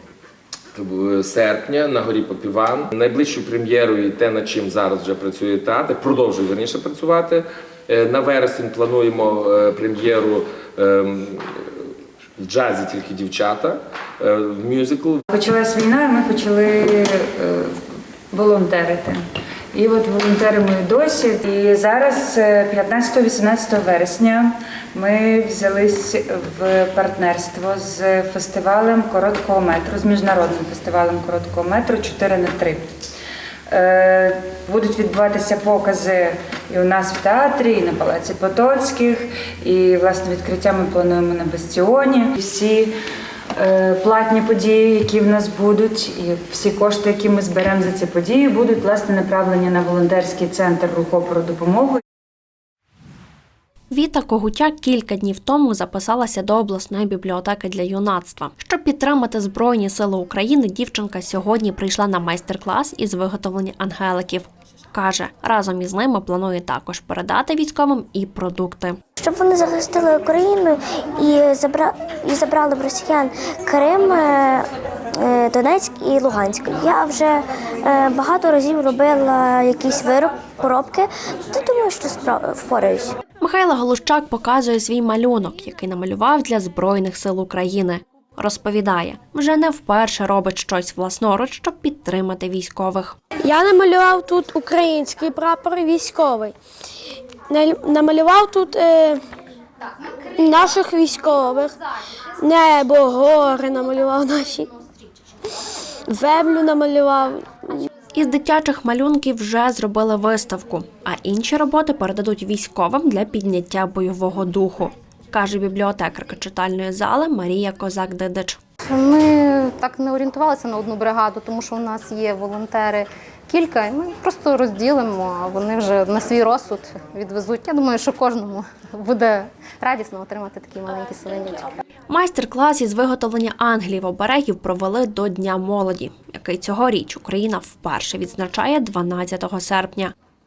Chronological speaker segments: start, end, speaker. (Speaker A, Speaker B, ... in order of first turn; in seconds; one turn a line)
Speaker A: 0.8-11.5
Speaker A: 12.4-15.2
Speaker B: 15.2-17.8
Speaker B: 18.3-32.9
Speaker B: 33.7-43.0
Speaker B: 43.5-52.0
Speaker C: 53.9-69.0
Speaker D: 69.2-74.6
Speaker D: 75.2-83.1
Speaker C: 83.4-93.2
Speaker E: 93.4-96.5
Speaker E: 97.5-99.2
Speaker E: 100.4-101.7
Speaker E: 102.4-104.7
Speaker E: 106.1-107.4
Speaker C: 108.1-118.6
Speaker F: 118.9-131.7
Speaker C: 132.1-140.1